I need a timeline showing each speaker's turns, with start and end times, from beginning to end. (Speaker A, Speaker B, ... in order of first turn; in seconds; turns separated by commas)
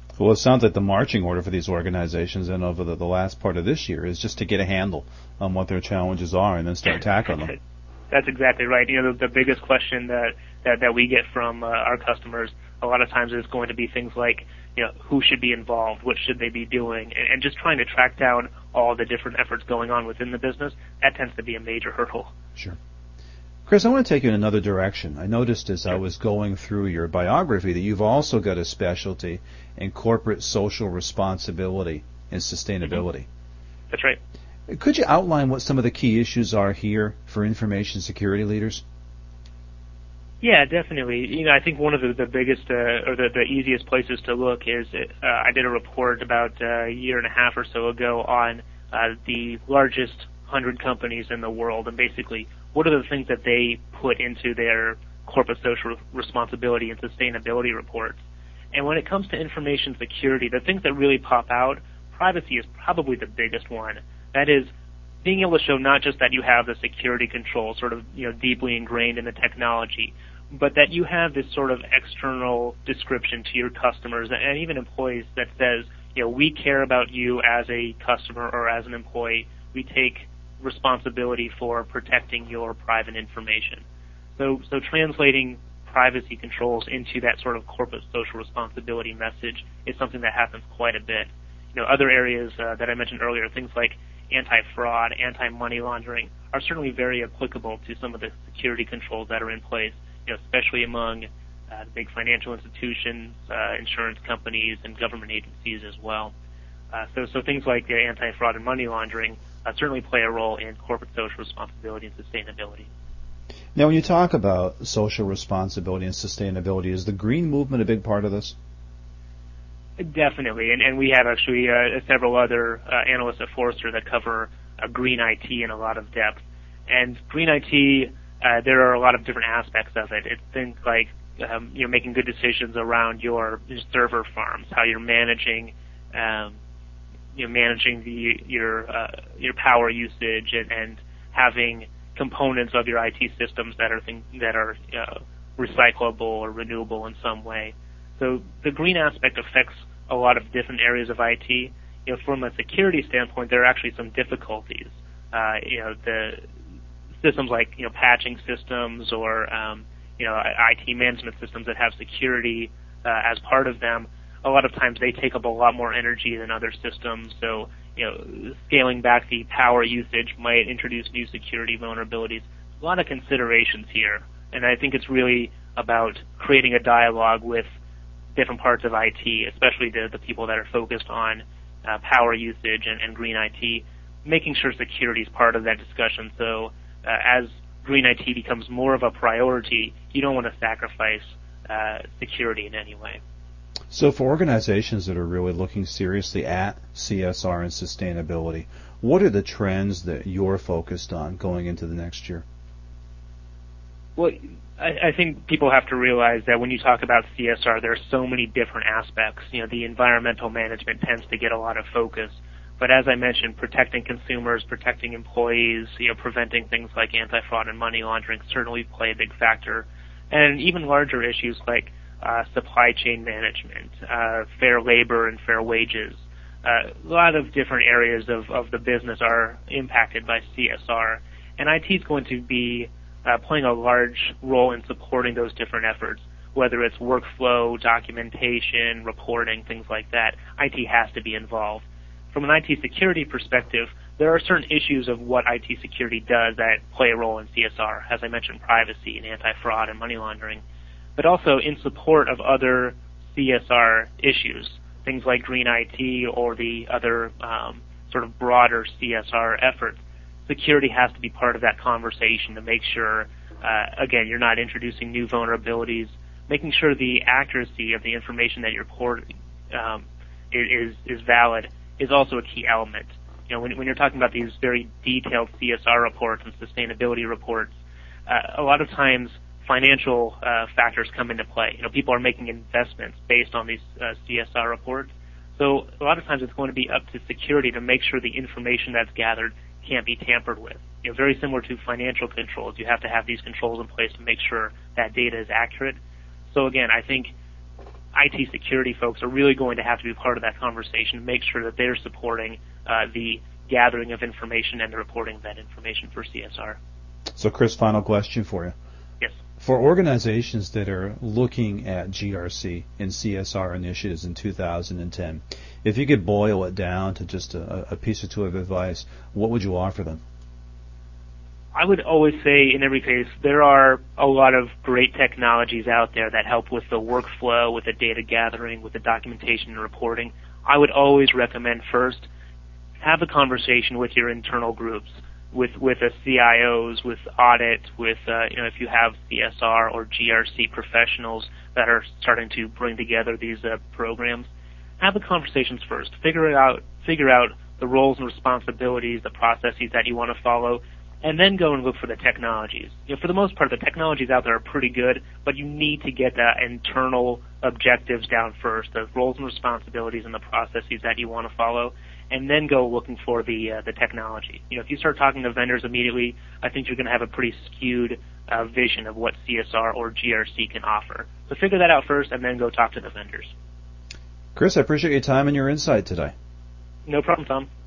Speaker A: 0.2-7.5, Speaker B: 8.1-22.3, Speaker A: 23.6-33.3, Speaker B: 33.9-34.2, Speaker A: 34.7-38.8, Speaker B: 40.4-58.2, Speaker B: 58.7-64.7, Speaker B: 65.2-83.8, Speaker B: 84.4-106.3, Speaker B: 106.9-112.9, Speaker A: 113.7-118.6, Speaker B: 120.0-136.6, Speaker B: 137.3-156.4, Speaker B: 157.2-177.7, Speaker B: 178.3-193.2, Speaker A: 193.9-202.4, Speaker B: 204.2-250.6, Speaker B: 251.2-277.7, Speaker B: 278.3-296.0, Speaker B: 296.5-297.3, Speaker B: 298.1-306.8, Speaker A: 307.4-308.7, Speaker A: 309.6-320.2, Speaker B: 321.7-332.3, Speaker B: 333.0-344.5, Speaker B: 345.0-373.5, Speaker A: 374.6-376.3, Speaker B: 377.1-377.7